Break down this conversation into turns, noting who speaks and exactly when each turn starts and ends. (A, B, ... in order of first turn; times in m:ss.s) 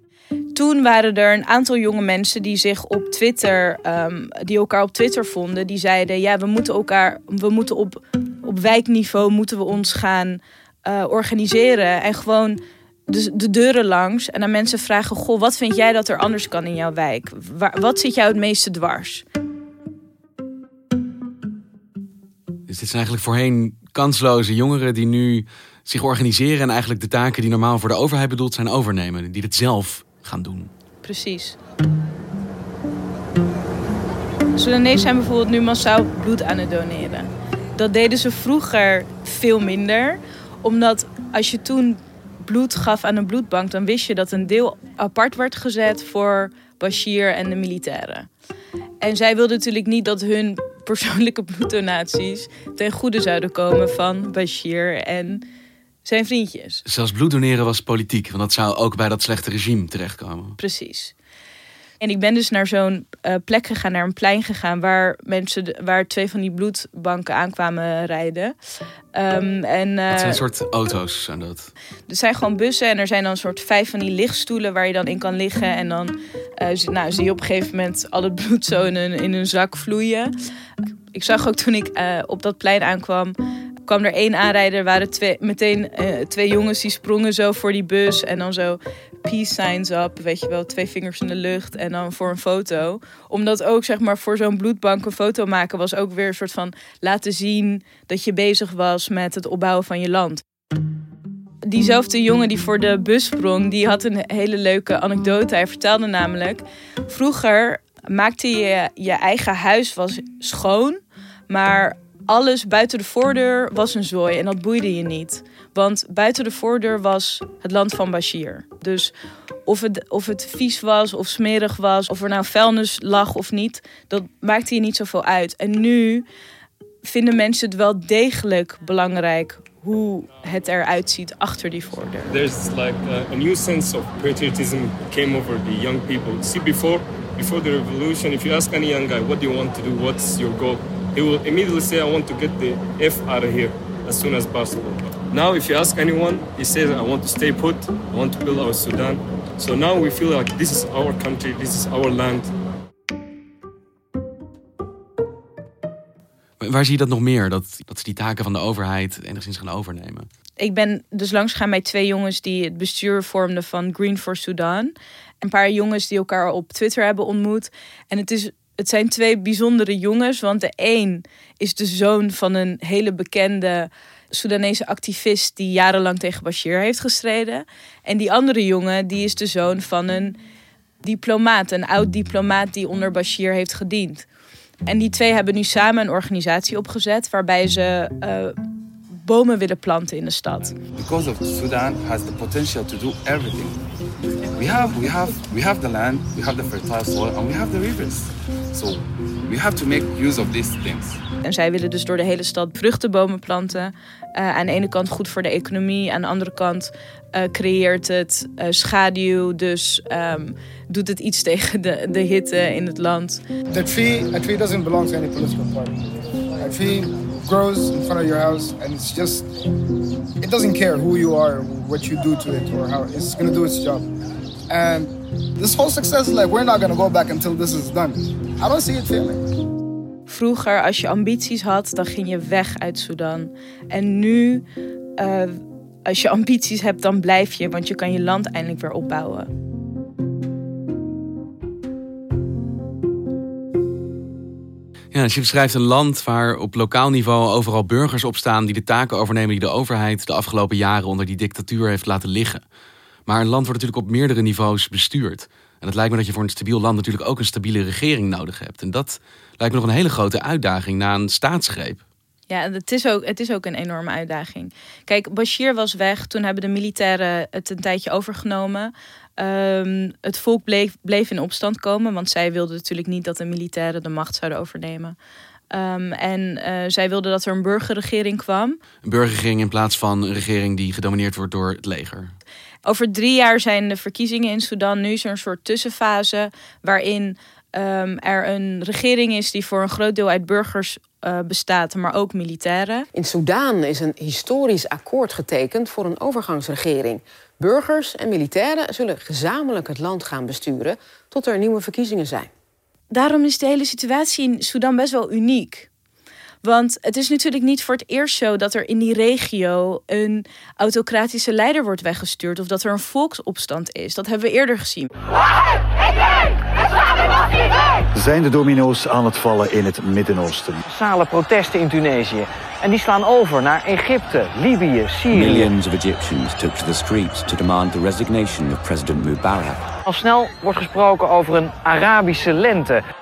0:00.5-0:19.2 A
0:22.7-0:30.7 B
0:31.0-0:31.6 A
0:34.6-0:48.3 A
0:49.0-0:55.4 A
0:56.0-0:56.8 A
0:56.8-1:00.6 B
1:00.6-1:01.1 A
1:02.0-1:08.6 A
1:09.1-1:10.4 A
1:10.1-1:11.7 B
1:12.1-1:20.3 A
1:21.1-1:40.4 A
1:41.6-1:59.1 A
1:59.6-2:06.2 A
2:07.0-2:12.3 A
2:12.3-2:32.5 C
2:36.6-2:40.3 B
2:40.6-3:00.4 A
3:01.0-3:04.2 A
3:04.8-3:08.6 A
3:09.1-3:10.8 A
3:10.9-3:13.8 D
3:14.6-3:21.2 D
3:21.4-3:33.4 A
3:33.7-3:36.0 E
3:36.6-3:39.4 E
3:40.4-3:44.0 E
3:44.7-3:49.4 E
3:50.3-3:54.6 A
3:55.2-3:59.5 A
4:05.1-4:12.6 B
4:13.3-4:22.0 B
4:22.5-4:35.2 A
4:35.7-4:38.8 A
4:39.0-4:42.3 B
4:42.8-4:53.1 A
4:53.2-5:02.5 F
5:03.1-5:05.9 A
5:06.6-5:15.1 A
5:18.1-5:20.8 G
5:20.9-5:25.4 H
5:25.3-5:25.6 G
5:25.3-5:29.9 I
5:30.1-5:33.0 H